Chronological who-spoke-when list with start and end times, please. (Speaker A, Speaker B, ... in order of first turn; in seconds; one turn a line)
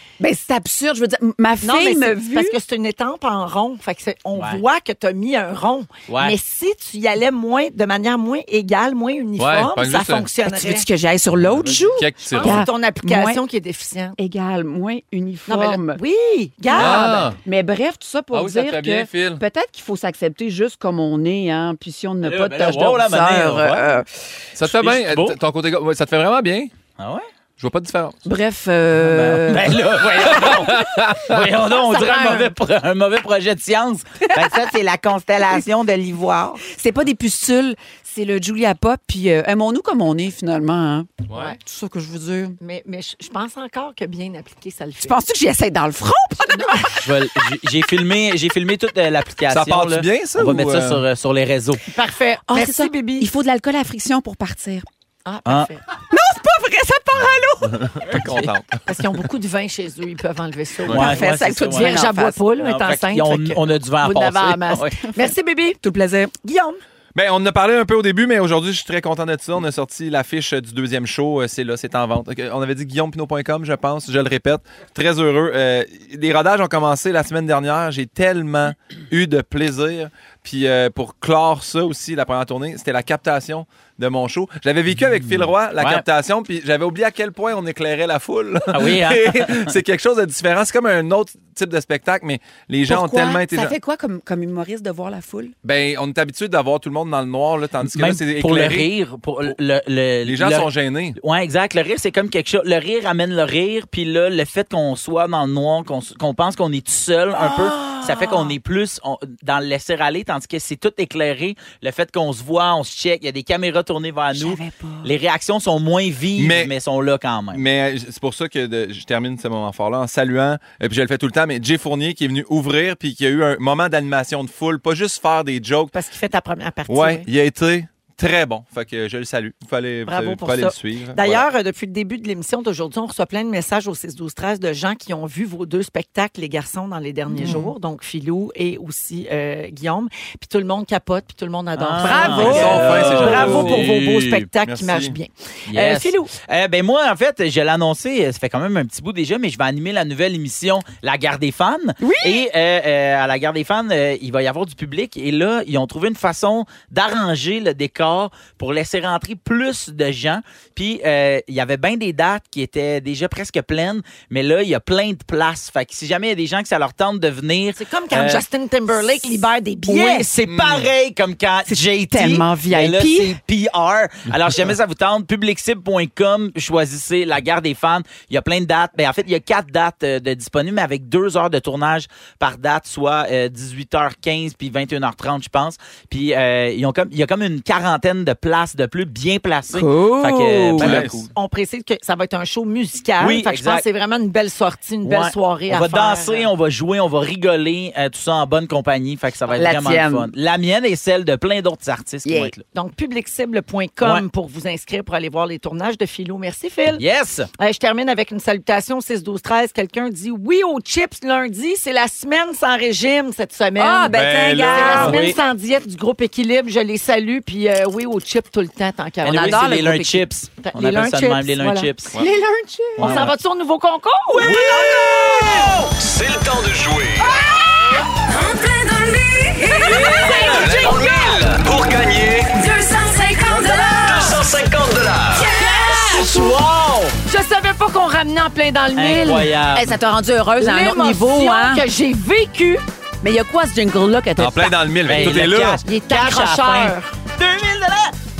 Speaker A: 0.2-2.6
Speaker B: 1.6-10.9
Speaker C: 4.3-4.6
Speaker C: 6.1-6.3
Speaker D: 9.4-10.3
Speaker A: 10.4-13.4
Speaker D: 11.4-12.6
Speaker B: 12.3-14.2
Speaker A: 14.2-16.0
Speaker B: 15.5-17.4
Speaker A: 16.7-24.1
Speaker D: 16.7-17.4
Speaker D: 18.3-19.4
Speaker C: 22.2-24.0
Speaker D: 24.6-26.7
Speaker C: 24.6-25.4
Speaker C: 27.0-27.3
Speaker D: 27.6-28.2
Speaker A: 28.2-30.8
Speaker C: 29.0-36.6
Speaker D: 30.3-31.4
Speaker B: 31.7-32.5
Speaker A: 34.3-34.6
Speaker A: 36.7-42.6
Speaker B: 42.6-45.2
Speaker A: 45.0-47.1
Speaker B: 46.5-46.9
Speaker C: 47.0-51.8
Speaker D: 49.5-51.0
Speaker B: 51.9-53.3
Speaker A: 52.5-54.9
Speaker B: 55.2-55.9
Speaker C: 55.5-55.7
Speaker A: 56.1-58.0
Speaker D: 57.7-58.8
Speaker C: 58.1-58.5
Speaker B: 58.9-65.8
Speaker C: 60.9-62.0
Speaker A: 60.9-62.4
Speaker C: 62.6-65.1
Speaker A: 65.8-66.3
Speaker B: 66.4-66.8
Speaker D: 67.2-93.7
Speaker C: 85.8-86.0
Speaker C: 88.7-89.7
Speaker A: 92.9-95.5
Speaker D: 95.6-98.9
Speaker C: 97.8-117.6
Speaker D: 100.2-101.2
Speaker A: 107.4-108.6
Speaker A: 114.3-115.1
Speaker D: 116.4-116.7
Speaker D: 117.5-126.0
Speaker B: 125.9-127.3
Speaker D: 126.9-131.5
Speaker B: 130.1-146.3
Speaker A: 137.3-137.7
Speaker C: 141.8-144.5
Speaker A: 142.0-142.8
Speaker D: 142.3-144.0
Speaker D: 144.6-145.2
Speaker C: 145.7-168.4
Speaker A: 152.0-152.5
Speaker B: 167.8-170.3
Speaker C: 168.9-169.3
Speaker C: 169.9-191.3
Speaker D: 170.5-170.9
Speaker A: 171.7-173.4
Speaker A: 189.7-191.0
Speaker D: 190.8-191.3
Speaker B: 191.3-196.5
Speaker C: 193.2-193.8
Speaker C: 195.0-202.6
Speaker A: 199.5-200.3
Speaker A: 202.2-202.6
Speaker B: 202.7-207.0
Speaker C: 207.0-207.5
Speaker B: 207.6-219.9
Speaker A: 213.8-215.3
Speaker D: 214.1-215.2
Speaker C: 214.9-215.4
Speaker C: 219.2-222.2
Speaker A: 219.3-220.3
Speaker B: 220.6-221.9
Speaker A: 222.2-223.2
Speaker C: 223.0-223.3
Speaker B: 223.0-225.6
Speaker E: 224.4-228.0
Speaker C: 224.4-225.3
Speaker F: 228.2-231.4
Speaker E: 229.8-232.7
Speaker C: 230.0-230.4
Speaker F: 232.5-234.4
Speaker E: 233.5-235.6
Speaker B: 235.4-236.7
Speaker F: 235.5-235.8
Speaker C: 236.2-237.1
Speaker B: 237.2-239.5
Speaker C: 238.9-239.9
Speaker A: 239.7-241.8
Speaker B: 240.6-242.8
Speaker A: 243.2-244.8
Speaker D: 244.4-245.8
Speaker C: 245.1-248.2
Speaker B: 245.8-247.1